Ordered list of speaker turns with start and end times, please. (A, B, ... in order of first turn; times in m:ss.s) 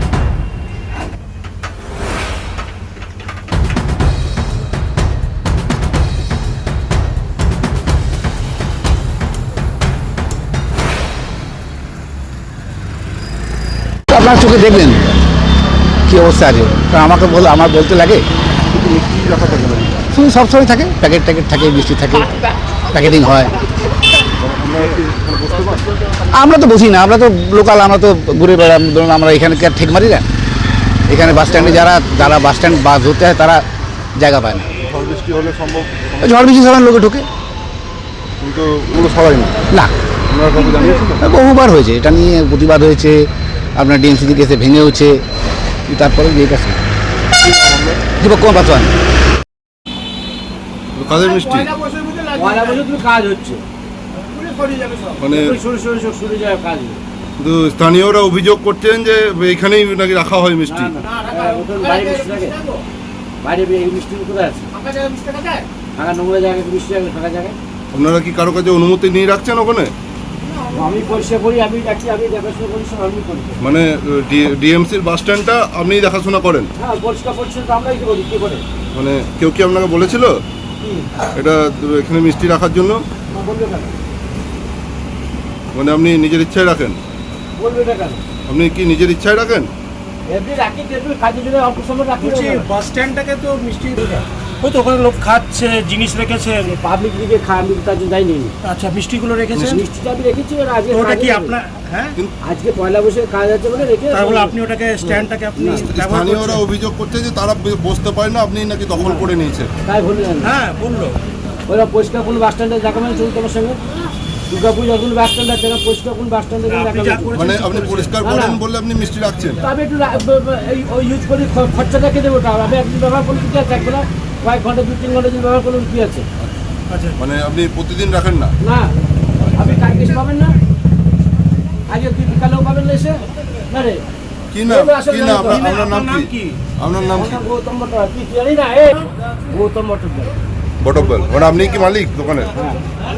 0:14.1-0:15.0 A
0:16.1-0:18.2 A
0:18.7-0:20.0 B
0:20.1-0:22.4 A
0:22.9-0:23.5 A
0:24.4-0:25.8 B
0:26.3-0:30.2 A
0:31.1-0:33.6 A
0:34.2-0:34.8 A
0:34.8-0:36.2 B
0:36.2-0:37.3 A
0:38.4-0:39.6 B
0:40.3-0:41.2 B
0:40.6-0:41.0 C
0:41.1-0:43.2 A
0:43.8-0:45.2 A
0:45.9-0:46.8 A
0:47.4-0:48.0 B
0:48.2-0:48.9 A
0:50.9-0:51.7 B
0:51.3-0:52.8 D
0:52.3-0:53.6 C
0:54.4-0:55.1 D
0:55.2-0:55.6 B
0:55.3-0:57.0 C
0:57.4-1:01.0 B
1:00.7-1:02.6 C
1:01.1-1:02.8 D
1:03.4-1:04.8 C
1:04.8-1:05.6 D
1:06.0-1:07.6 C
1:07.9-1:09.9 B
1:10.7-1:13.6 C
1:13.6-1:16.7 B
1:16.8-1:18.6 C
1:18.9-1:20.4 B
1:20.8-1:21.1 C
1:21.4-1:23.0 B
1:23.3-1:24.0 C
1:25.7-1:27.0 B
1:27.6-1:28.2 C
1:28.5-1:29.7 B
1:30.3-1:32.7 C
1:32.2-1:36.8 D
1:36.8-1:38.5 C
1:38.6-1:39.8 D
1:39.7-1:41.6 C
1:40.9-1:42.2 D
1:42.4-1:44.6 C
1:44.1-1:46.6 D
1:45.6-1:45.9 C
1:45.8-1:49.7 B
1:49.0-1:49.2 C
1:49.9-1:50.5 C
1:50.4-1:51.2 D
1:51.7-1:53.8 C
1:54.5-1:57.4 C
1:56.7-1:58.2 D
1:57.3-1:59.6 B
1:58.2-1:58.6 C
1:59.6-2:06.3 C
2:06.9-2:07.2 D
2:07.2-2:08.5 B
2:08.6-2:08.9 C
2:09.5-2:10.5 C
2:11.9-2:14.0 C
2:14.5-2:17.4 B
2:14.7-2:15.6 C
2:15.4-2:16.6 D
2:17.1-2:20.3 C
2:20.8-2:22.5 B
2:22.6-2:22.8 C